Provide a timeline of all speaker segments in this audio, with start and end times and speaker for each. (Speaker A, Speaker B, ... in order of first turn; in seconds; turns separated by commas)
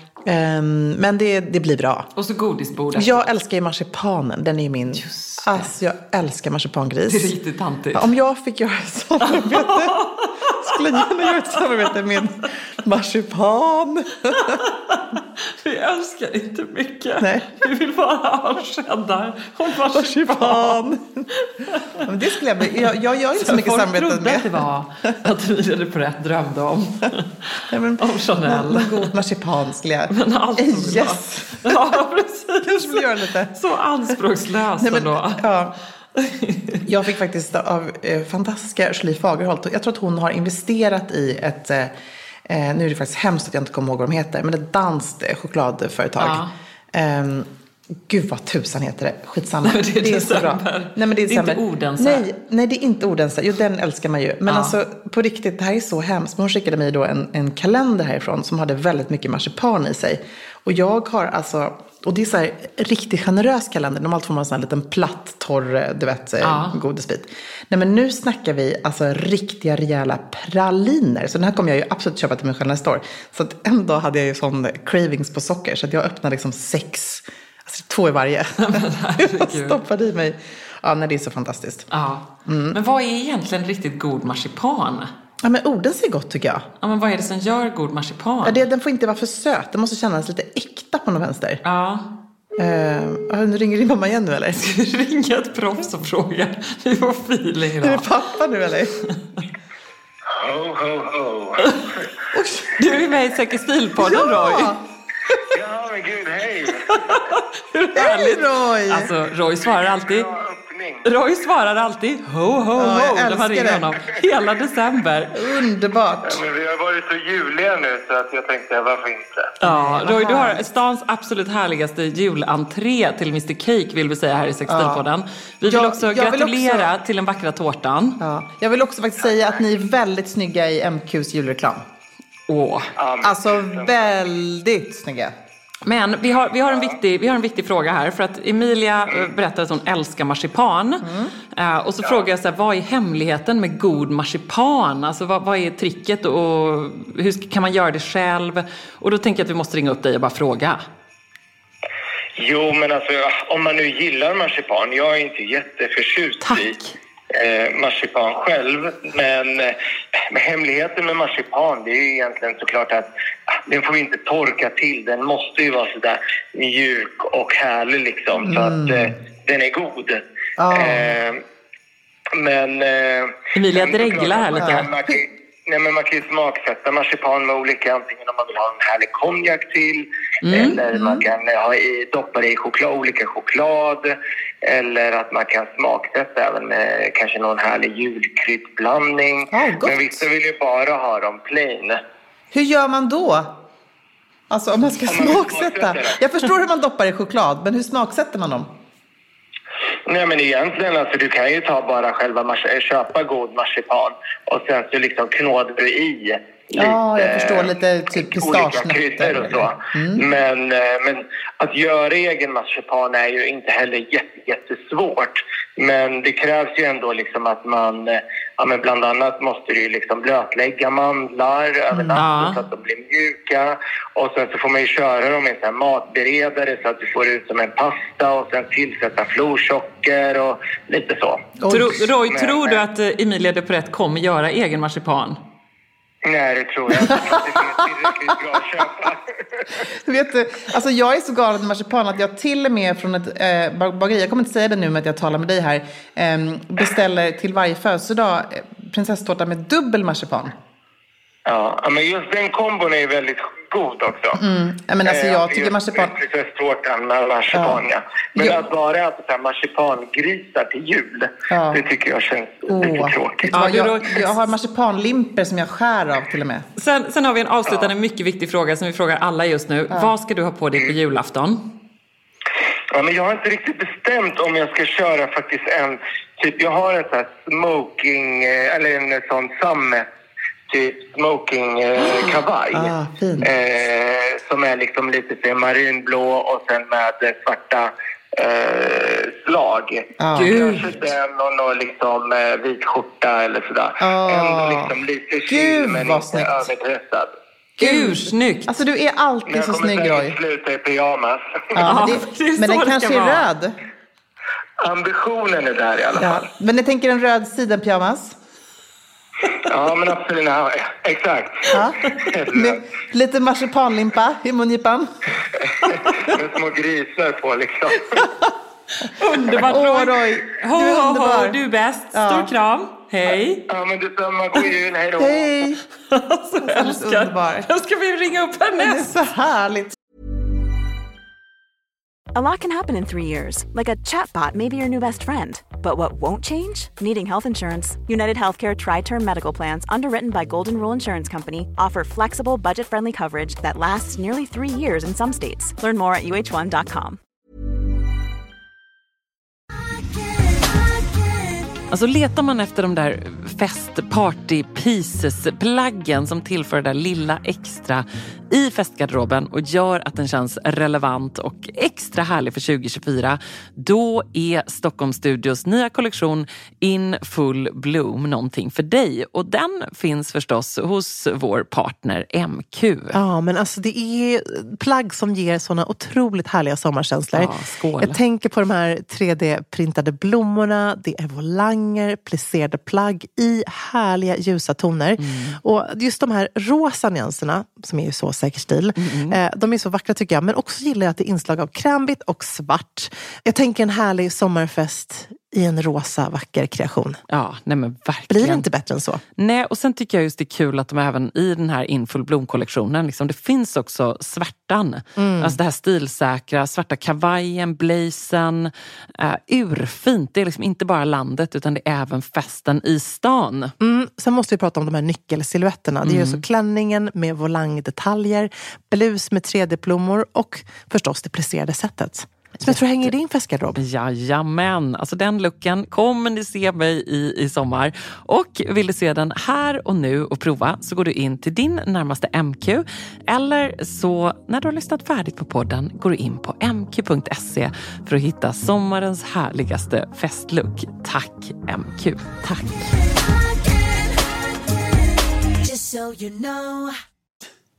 Speaker A: 0.3-2.1, Speaker B: 2.2-3.3, Speaker A: 2.9-7.3, Speaker B: 4.9-5.7, Speaker B: 7.1-8.1, Speaker A: 7.9-10.0, Speaker B: 9.2-12.2, Speaker A: 10.6-14.6, Speaker B: 14.3-22.1, Speaker A: 17.2-17.6, Speaker A: 19.9-21.3, Speaker A: 22.0-24.6, Speaker B: 22.6-29.1, Speaker A: 27.7-32.0, Speaker B: 30.1-35.4, Speaker A: 32.6-33.5, Speaker A: 34.8-35.8, Speaker B: 36.2-36.9, Speaker A: 36.9-41.9, Speaker A: 42.5-47.5, Speaker B: 46.2-46.5, Speaker A: 48.1-81.9, Speaker B: 49.6-52.3, Speaker B: 54.5-54.8, Speaker B: 66.4-66.8, Speaker B: 78.6-79.8, Speaker B: 81.9-85.1, Speaker A: 82.5-82.8, Speaker A: 85.4-86.7, Speaker B: 86.8-88.6, Speaker A: 88.4-91.6, Speaker B: 91.6-92.1, Speaker A: 92.6-94.6, Speaker B: 94.5-98.1, Speaker A: 97.8-99.0, Speaker C: 100.3-102.1, Speaker A: 102.3-102.8, Speaker B: 102.8-104.8, Speaker A: 104.0-104.8, Speaker C: 105.5-107.2, Speaker B: 107.1-110.3, Speaker A: 108.0-109.1, Speaker C: 109.6-111.1, Speaker B: 111.0-115.4, Speaker A: 112.8-113.9, Speaker A: 115.3-116.4, Speaker C: 116.2-119.5, Speaker B: 119.6-128.2, Speaker A: 119.6-120.7, Speaker A: 124.7-125.0, Speaker A: 125.6-126.9, Speaker A: 128.2-131.8, Speaker B: 132.5-132.9, Speaker C: 133.0-133.9, Speaker A: 133.2-135.3, Speaker B: 135.8-150.8, Speaker A: 141.0-141.3, Speaker C: 152.4-156.8, Speaker B: 156.4-156.9, Speaker C: 157.3-171.4, Speaker A: 168.4-169.1, Speaker A: 170.6-171.0, Speaker C: 172.3-192.0, Speaker B: 173.6-174.9, Speaker B: 180.4-180.8, Speaker A: 180.9-181.3, Speaker A: 189.5-190.2, Speaker A: 192.5-193.5, Speaker A: 194.5-198.7, Speaker C: 195.1-196.2, Speaker C: 200.1-231.5, Speaker A: 206.7-210.2, Speaker A: 221.9-222.2, Speaker B: 222.2-222.6, Speaker A: 231.6-232.1, Speaker B: 231.7-235.4, Speaker C: 232.3-232.8, Speaker C: 236.2-239.6, Speaker A: 237.0-237.6, Speaker A: 240.0-250.6, Speaker C: 251.5-254.4, Speaker A: 254.3-256.1, Speaker C: 255.1-263.5, Speaker A: 257.5-257.9, Speaker A: 261.5-261.8, Speaker A: 262.7-266.7, Speaker B: 263.5-264.4, Speaker B: 266.8-271.6, Speaker C: 272.9-280.0, Speaker C: 280.7-297.3, Speaker A: 282.7-283.5, Speaker A: 290.2-290.6, Speaker B: 290.4-290.9, Speaker A: 294.0-294.9, Speaker A: 295.5-296.6, Speaker B: 297.8-298.7, Speaker A: 297.8-300.4, Speaker C: 299.5-301.9, Speaker A: 301.8-303.8, Speaker B: 301.8-303.5, Speaker C: 304.8-306.4, Speaker A: 306.2-308.4, Speaker C: 309.6-312.8, Speaker A: 311.7-315.1, Speaker C: 315.8-318.3, Speaker B: 319.1-323.6, Speaker A: 319.5-321.6, Speaker A: 322.1-322.5, Speaker C: 323.7-325.5, Speaker A: 325.2-325.8, Speaker B: 326.1-329.2, Speaker A: 326.6-327.7, Speaker A: 328.8-330.0, Speaker D: 332.3-347.2, Speaker E: 350.3-351.6, Speaker B: 351.9-373.2, Speaker F: 373.1-397.2, Speaker B: 377.3-378.2, Speaker B: 385.2-385.6, Speaker B: 389.0-389.4, Speaker B: 397.3-398.7, Speaker F: 398.3-399.2, Speaker B: 399.4-413.8, Speaker F: 405.2-405.6, Speaker F: 413.8-423.7, Speaker B: 416.0-416.4, Speaker A: 422.7-423.7, Speaker B: 423.8-442.5, Speaker E: 442.9-446.9